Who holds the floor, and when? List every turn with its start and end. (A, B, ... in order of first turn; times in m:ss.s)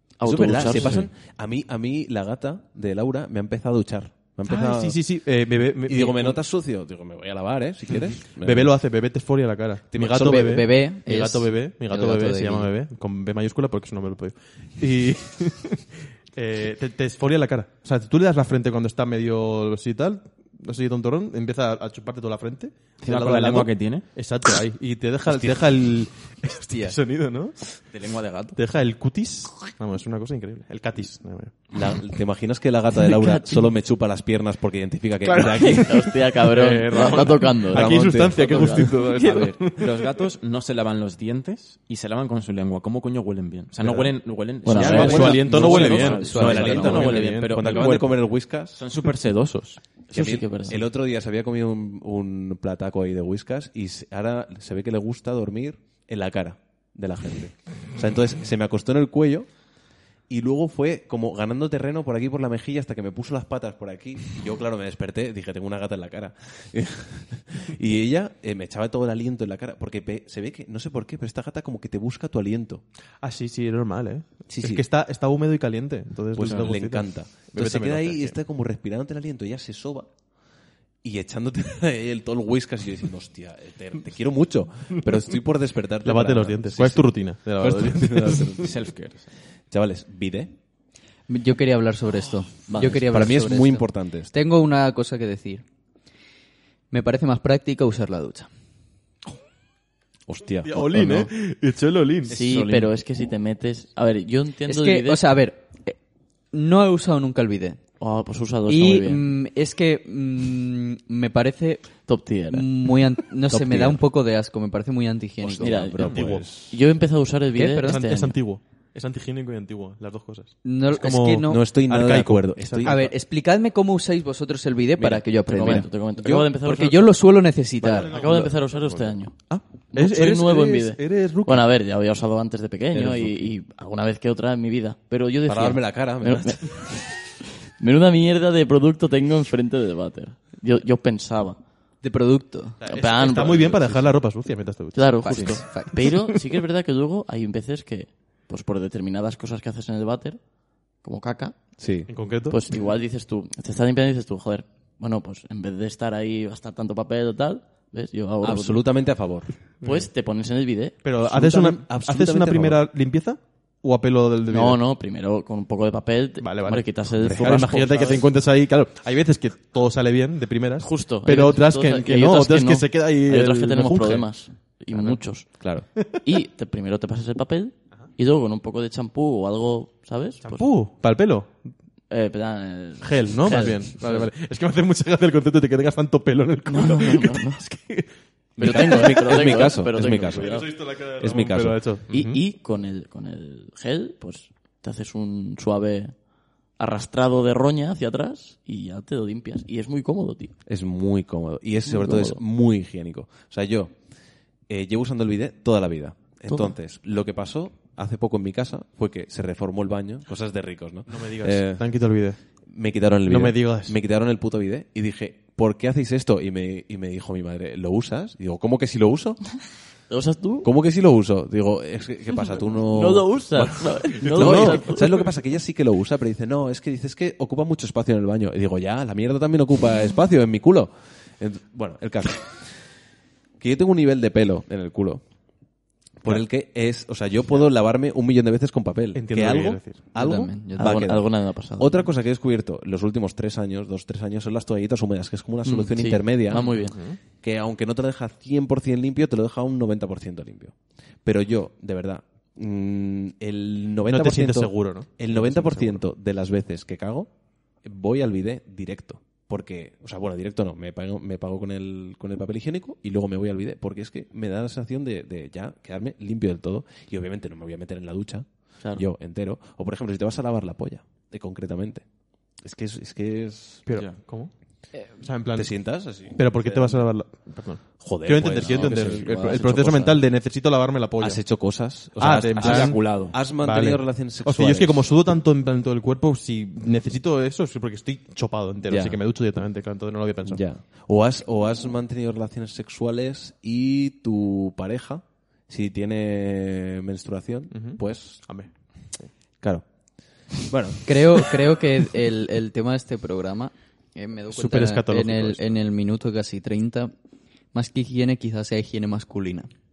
0:00.2-0:01.0 A
0:00.2-0:05.0 B
0:04.5-0:06.4 C
0:05.9-0:08.7 B
0:07.9-0:27.8 C
0:09.9-0:10.6 B
0:10.1-0:12.7 D
0:23.0-0:24.1 E
0:25.3-0:25.6 B
0:26.7-0:27.0 D
0:27.8-0:28.6 E
0:28.6-0:31.6 C
0:31.7-0:36.0 B
0:35.3-0:39.5 A
0:35.6-0:40.1 C
0:39.2-0:49.9 E
0:43.8-0:47.9 C
0:44.6-0:46.3 A
0:44.8-0:48.8 B
0:45.0-0:47.1 D
0:50.1-0:50.8 A
0:50.1-0:59.5 B
1:00.3-1:12.8 B
1:13.2-1:18.4 C
1:14.5-1:14.8 B
1:16.3-1:20.1 B
1:21.0-1:28.7 B
1:26.0-1:28.6 C
1:28.6-1:29.3 E
1:29.7-1:30.5 B
1:31.3-1:35.6 D
1:32.7-1:33.0 A
1:33.0-1:34.3 B
1:36.9-1:38.5 D
1:40.3-1:41.3 B
1:40.6-1:42.6 C
1:42.3-1:45.3 A
1:44.7-1:46.0 D
1:46.5-1:47.8 D
1:48.0-1:49.3 A
1:48.7-1:56.0 D
1:52.1-1:52.9 A
1:53.5-1:54.0 B
1:55.5-1:58.4 A
1:55.6-1:56.8 B
1:56.0-1:56.5 C
1:57.6-1:58.0 D
1:57.8-2:03.1 C
2:00.6-2:01.6 D
2:01.5-2:03.1 B
2:02.8-2:05.9 D
2:05.0-2:06.5 B
2:05.5-2:07.2 A
2:06.6-2:08.2 D
2:07.9-2:11.7 C
2:08.1-2:21.6 A
2:12.9-2:13.5 B
2:15.5-2:16.9 B
2:22.0-2:22.8 D
2:22.8-2:26.2 C
2:22.9-2:24.1 A
2:25.0-2:31.8 A
2:25.2-2:26.0 D
2:31.8-2:32.1 B
2:32.1-2:32.6 C
2:32.5-2:38.8 A
2:38.4-2:39.5 B
2:39.8-2:40.1 C
2:39.8-2:41.0 A
2:41.0-2:44.8 C
2:41.2-2:42.8 B
2:44.5-2:48.3 A
2:46.4-2:54.3 C
2:47.3-2:48.0 B
2:50.8-3:00.7 A
2:54.9-2:55.2 C
2:55.6-2:55.9 B
3:00.4-3:01.6 C
3:02.1-3:04.3 A
3:03.0-3:12.4 C
3:06.7-3:07.6 A
3:08.6-3:10.7 A
3:08.6-3:11.9 B
3:12.1-3:16.2 A
3:16.8-3:20.6 A
3:20.7-3:24.0 B
3:21.8-3:22.4 A
3:24.7-3:31.8 B
3:31.1-3:32.4 C
3:32.7-3:39.5 B
3:33.3-3:34.0 C
3:40.1-3:40.7 A
3:40.6-3:52.8 B
3:42.9-3:45.1 A
3:44.1-3:45.3 C
3:53.6-3:55.2 B
3:56.2-4:06.8 B
3:59.2-4:00.0 C
4:00.2-4:01.0 D
4:00.8-4:02.1 A
4:05.6-4:07.0 A
4:06.5-4:07.2 C
4:07.4-4:17.3 B
4:14.1-4:16.0 C
4:17.8-4:32.0 B
4:32.6-4:33.8 B
4:33.9-4:34.5 C
4:33.9-4:34.2 E
4:35.2-4:41.6 C
4:35.5-4:37.1 B
4:38.0-4:40.2 B
4:38.6-4:39.4 E
4:41.2-4:45.1 B
4:42.2-4:50.6 C
4:42.4-4:43.4 E
4:48.9-4:49.2 B
4:50.4-4:58.5 B
4:57.7-4:59.3 C
4:59.6-4:59.9 B
5:00.5-5:01.4 B
5:01.1-5:07.1 D
5:04.5-5:05.8 C
5:07.7-5:09.7 D